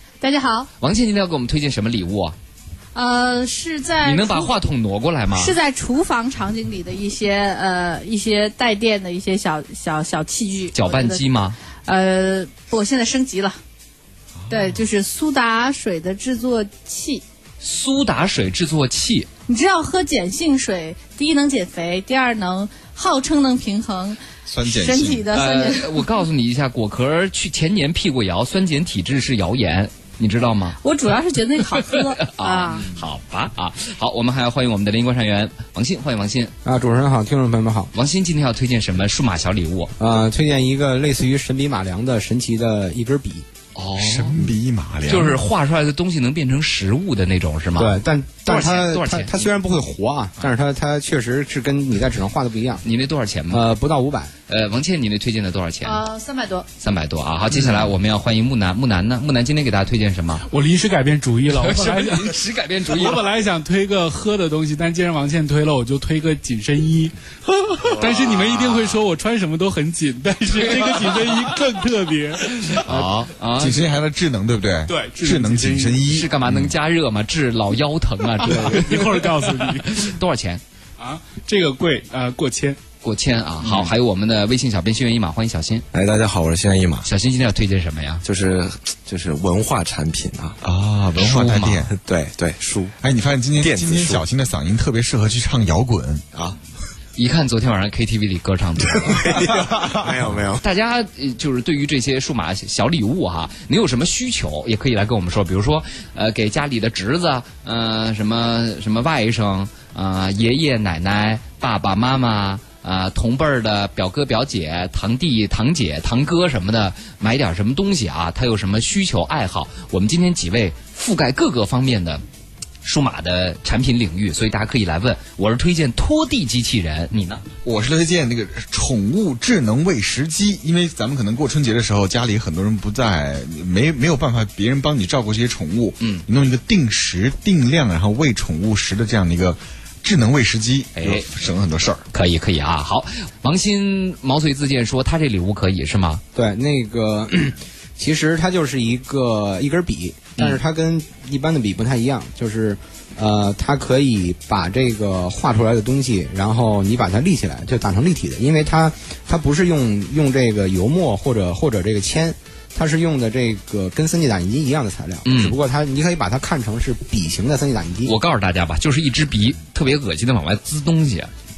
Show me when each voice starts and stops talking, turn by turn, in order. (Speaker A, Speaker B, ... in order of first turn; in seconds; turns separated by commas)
Speaker A: 0.2-0.7, Speaker B: 0.8-2.4, Speaker A: 2.9-4.5, Speaker B: 4.0-5.6, Speaker A: 5.3-11.2, Speaker B: 10.7-11.6, Speaker A: 11.8-13.6, Speaker C: 14.4-14.8, Speaker A: 14.5-17.2, Speaker B: 17.6-19.3, Speaker A: 19.5-26.1, Speaker C: 24.5-25.3, Speaker B: 25.3-30.8, Speaker A: 30.8-33.0, Speaker B: 31.9-36.5, Speaker D: 36.6-37.9, Speaker B: 37.9-39.9, Speaker D: 40.0-43.5, Speaker B: 43.8-44.4, Speaker C: 44.0-45.4, Speaker B: 45.1-49.3, Speaker D: 47.8-52.8, Speaker B: 52.8-53.7, Speaker D: 53.5-54.3, Speaker B: 54.5-56.0, Speaker A: 55.8-56.7, Speaker B: 56.8-60.5, Speaker E: 60.5-67.1, Speaker B: 61.5-63.3, Speaker E: 67.9-72.6, Speaker B: 68.0-68.8, Speaker B: 70.7-70.9, Speaker B: 72.7-73.9, Speaker C: 72.8-76.7, Speaker E: 74.9-76.0, Speaker B: 76.0-80.6, Speaker E: 78.4-80.1, Speaker E: 81.0-82.8, Speaker B: 83.0-85.9, Speaker F: 85.9-87.1, Speaker B: 87.0-88.2, Speaker F: 88.2-90.6, Speaker C: 90.6-91.9, Speaker B: 91.2-91.9, Speaker F: 91.9-93.0, Speaker C: 93.0-96.3, Speaker F: 93.6-94.2, Speaker B: 97.2-99.2, Speaker F: 99.0-100.6, Speaker B: 100.6-122.2, Speaker B: 122.8-127.5, Speaker C: 127.6-142.1, Speaker B: 141.0-141.3, Speaker B: 142.1-146.2, Speaker D: 146.3-168.1, Speaker B: 165.3-165.6, Speaker B: 168.1-171.3